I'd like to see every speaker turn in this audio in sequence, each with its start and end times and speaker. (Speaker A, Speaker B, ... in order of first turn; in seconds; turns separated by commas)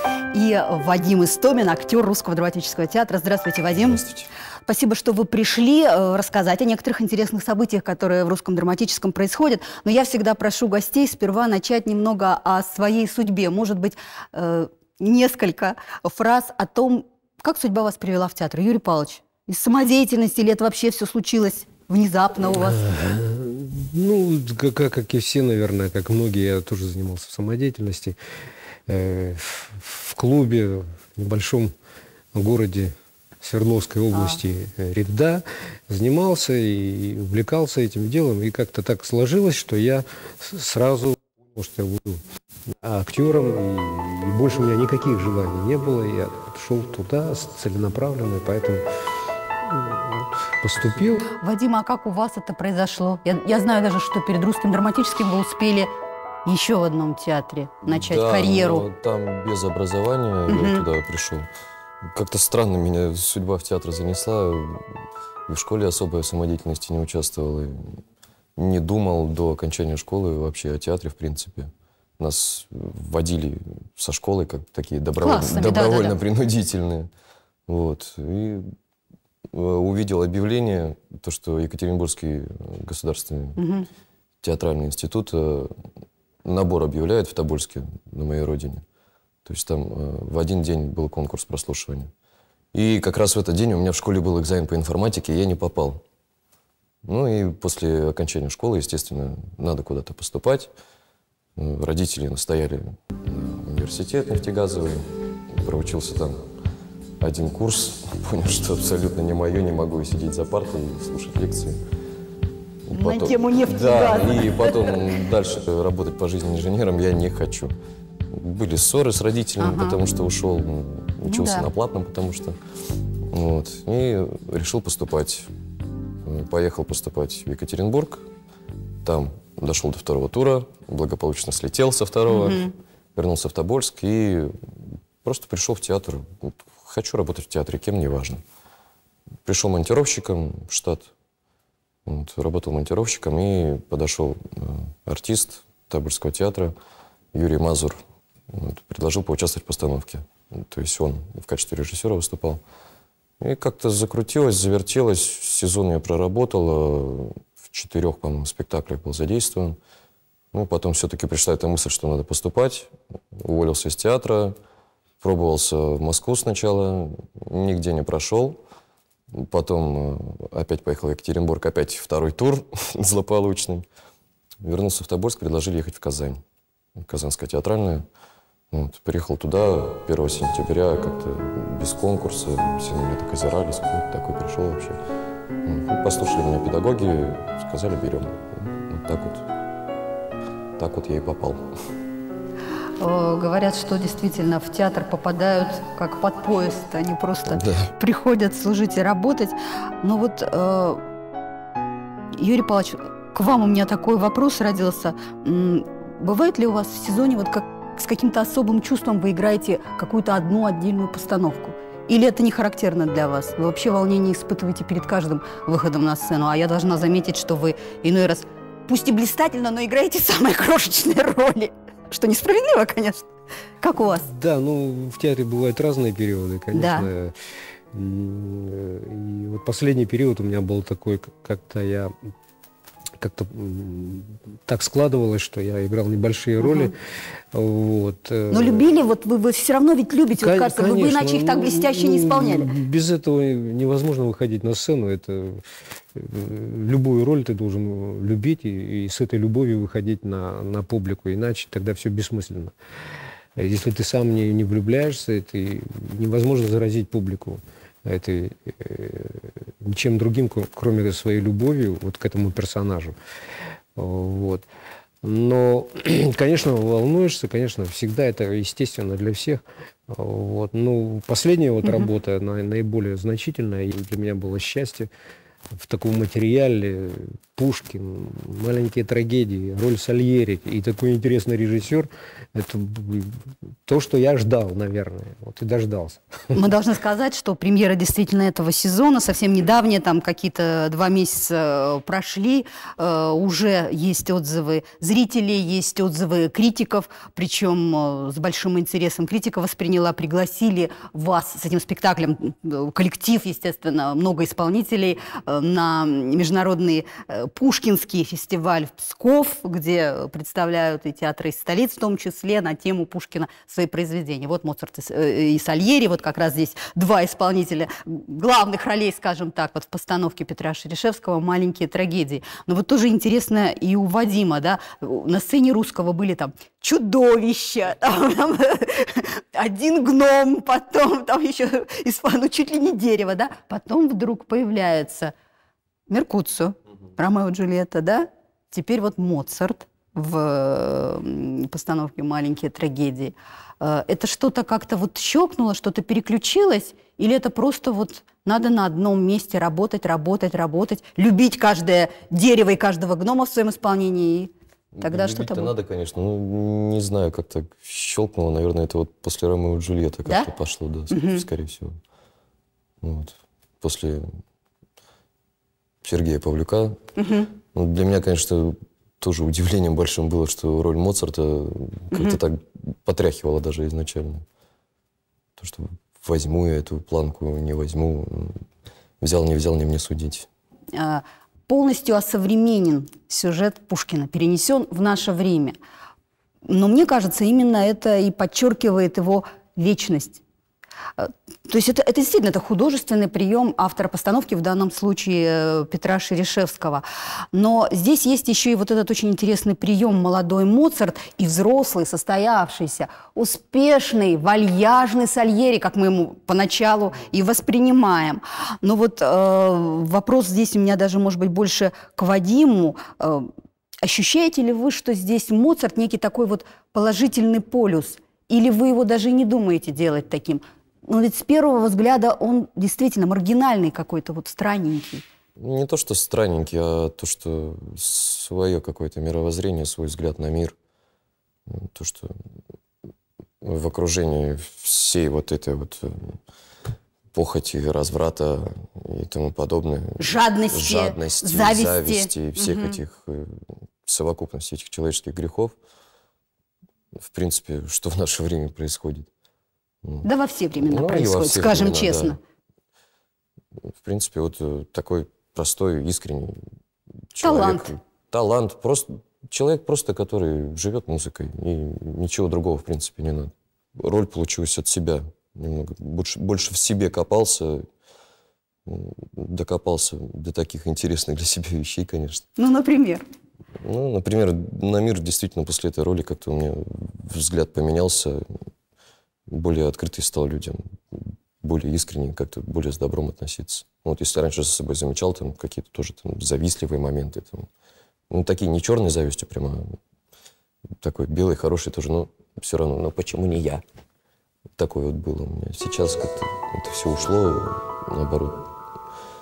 Speaker A: 0.3-4.0, Speaker B: 3.9-4.3, Speaker A: 4.7-22.8, Speaker C: 22.6-28.2, Speaker C: 28.9-31.7, Speaker C: 32.3-42.2, Speaker A: 34.1-34.4, Speaker C: 42.8-48.8, Speaker C: 49.6-51.3, Speaker A: 51.4-55.9, Speaker A: 56.4-58.9, Speaker B: 57.9-61.5, Speaker A: 60.5-60.8, Speaker B: 62.1-64.9, Speaker B: 65.5-68.0, Speaker B: 68.6-77.1, Speaker A: 75.2-76.2, Speaker B: 77.7-78.7, Speaker B: 79.5-83.6, Speaker A: 83.6-83.8, Speaker B: 84.4-85.7, Speaker B: 86.4-88.8, Speaker B: 89.4-92.1, Speaker B: 92.7-96.0, Speaker B: 97.0-100.7, Speaker B: 101.6-105.0, Speaker B: 105.6-106.4, Speaker B: 107.2-111.8, Speaker B: 112.9-117.7, Speaker A: 112.9-115.2, Speaker B: 118.3-122.6, Speaker A: 119.6-120.0, Speaker A: 121.2-121.7, Speaker B: 123.3-125.5, Speaker B: 126.2-128.2, Speaker B: 129.0-138.4, Speaker A: 132.3-132.7, Speaker B: 139.4-141.1, Speaker B: 142.1-146.7, Speaker B: 147.3-148.0, Speaker B: 148.5-152.6, Speaker B: 153.4-159.8, Speaker B: 160.5-164.6, Speaker B: 165.2-168.6, Speaker B: 169.3-173.8, Speaker B: 174.6-176.4, Speaker B: 177.0-178.0, Speaker B: 178.7-185.0, Speaker B: 185.6-189.4, Speaker B: 190.8-191.6, Speaker A: 193.0-201.0, Speaker B: 197.5-197.9, Speaker A: 202.4-223.3, Speaker A: 223.8-224.2, Speaker C: 224.1-227.3, Speaker A: 226.7-227.1, Speaker C: 227.9-232.1, Speaker C: 233.2-236.9, Speaker A: 236.6-236.9, Speaker C: 237.5-238.8, Speaker A: 238.5-242.8, Speaker C: 240.4-245.6, Speaker C: 246.1-252.7, Speaker C: 253.6-263.1, Speaker C: 263.9-264.6, Speaker C: 265.2-275.1, Speaker C: 275.8-286.2, Speaker A: 286.5-335.3, Speaker A: 336.1-355.7, Speaker B: 354.9-361.9, Speaker A: 361.1-361.4, Speaker B: 363.0-364.2, Speaker B: 366.0-367.0, Speaker A: 367.2-367.5, Speaker B: 367.7-374.4, Speaker A: 372.1-372.4, Speaker B: 375.6-378.6, Speaker B: 379.2-380.5, Speaker A: 380.9-385.8, Speaker A: 386.6-390.4, Speaker A: 391.2-413.5, Speaker A: 414.0-425.2, Speaker B: 425.6-430.8, Speaker B: 431.7-432.3, Speaker B: 433.6-436.4, Speaker B: 437.3-445.8, Speaker A: 440.2-443.0, Speaker B: 447.2-449.3, Speaker A: 450.2-452.4, Speaker B: 450.8-452.4, Speaker B: 453.9-456.5, Speaker B: 457.3-467.8, Speaker A: 457.4-457.9, Speaker B: 468.9-472.4, Speaker A: 472.6-473.2, Speaker B: 473.8-478.4, Speaker B: 479.5-487.7, Speaker B: 488.3-489.9, Speaker B: 491.0-493.8, Speaker B: 494.8-498.6